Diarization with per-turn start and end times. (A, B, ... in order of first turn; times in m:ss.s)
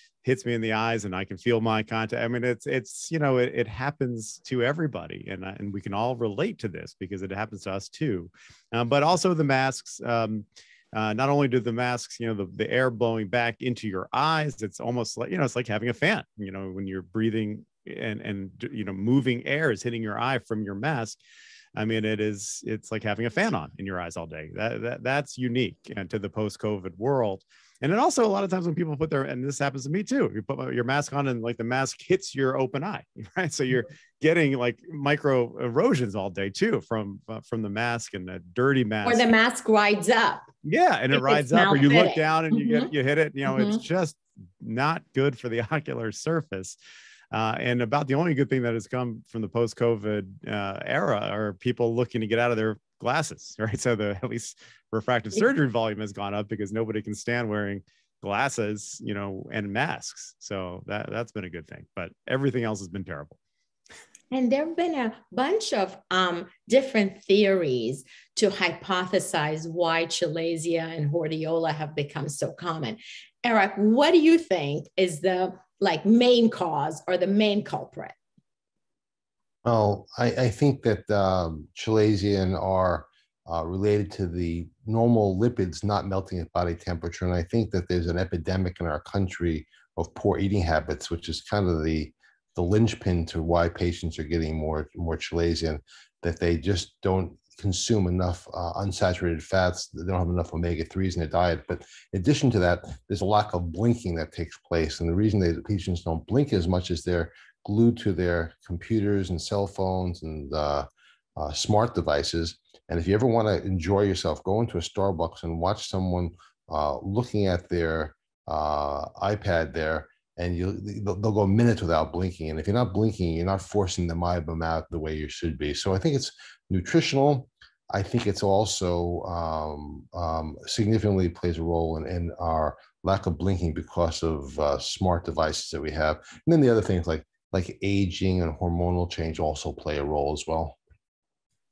0:00.2-0:21.2 A
0:21.8-0:39.2 A
0:39.0-0:40.5 B
0:40.6-0:46.8 A
0:41.1-0:42.9 B
0:43.5-0:43.8 B
0:47.3-1:03.4 A
1:04.3-1:18.2 B
1:19.6-2:20.8 C